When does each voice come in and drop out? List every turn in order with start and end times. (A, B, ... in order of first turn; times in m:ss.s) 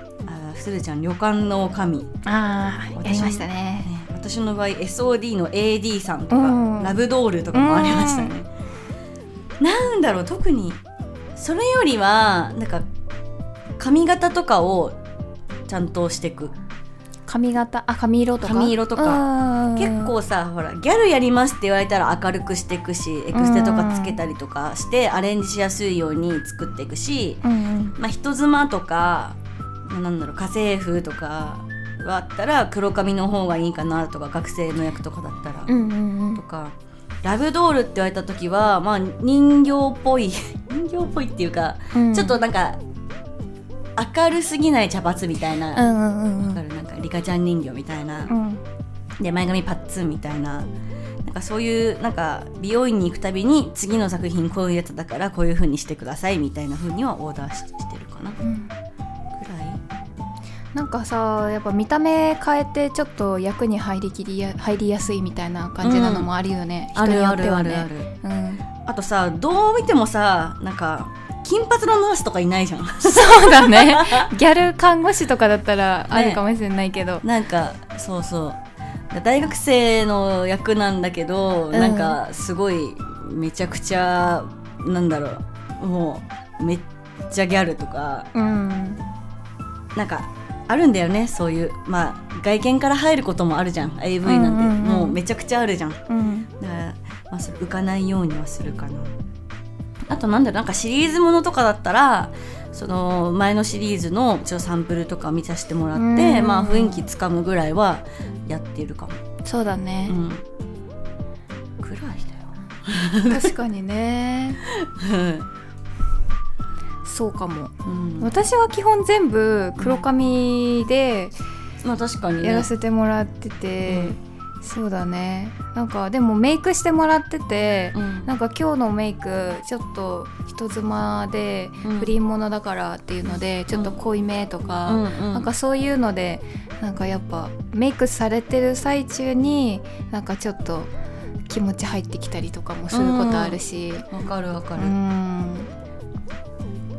0:00.2-0:02.1 A
0:02.2-0:03.9 B
0:03.0-0:08.5 A
0:06.3-0:07.0 B
0:07.5-0:08.4 B
0:09.6-0:10.8 A
0:11.4-0:12.9 A
0:13.8-0:15.0 A
0:15.7-0:16.5 A
0:17.3-0:20.1 B
0:18.4-0:19.2 A
0:19.8-0:27.4 A
0:23.3-0:24.2 B
0:27.4-0:28.0 B
0:28.0-0:29.4 A
0:29.9-0:35.7 A
0:35.7-0:36.4 B
0:36.4-0:42.8 A
0:41.9-0:42.4 B
0:44.0-0:45.8 A
0:45.8-0:46.6 B
0:46.4-0:48.3 A
0:48.3-0:48.6 B
0:49.2-0:50.7 A
0:51.2-0:58.4 A
0:58.4-0:58.7 B
0:59.3-0:59.8 A
1:00.8-1:08.6 B
1:05.8-1:06.3 A
1:07.0-1:08.1 A
1:08.8-1:14.3 A
1:13.0-1:17.2 B
1:16.1-1:16.4 A
1:17.2-1:18.6 A
1:19.1-1:28.3 A
1:21.7-1:22.2 B
1:28.3-1:29.0 B
1:30.0-1:36.0 A
1:34.2-1:35.2 B
1:36.1-1:36.5 B
1:36.6-1:39.1 A
1:40.1-1:49.2 A
1:45.9-1:47.1 B
1:49.4-1:50.2 B
1:50.1-1:50.4 A
1:51.8-1:53.6 A
1:53.3-1:54.6 B
1:54.6-1:55.5 A
1:57.0-2:01.3 B
1:57.8-1:58.3 A
1:59.8-2:00.0 A
2:01.8-2:02.7 A
2:02.4-2:20.9 B
2:03.9-2:04.2 A
2:07.9-2:08.3 A
2:11.8-2:12.1 A
2:14.9-2:15.5 A
2:21.5-2:24.1 B
2:22.9-2:23.6 A
2:24.1-2:25.0 A
2:24.8-2:25.7 B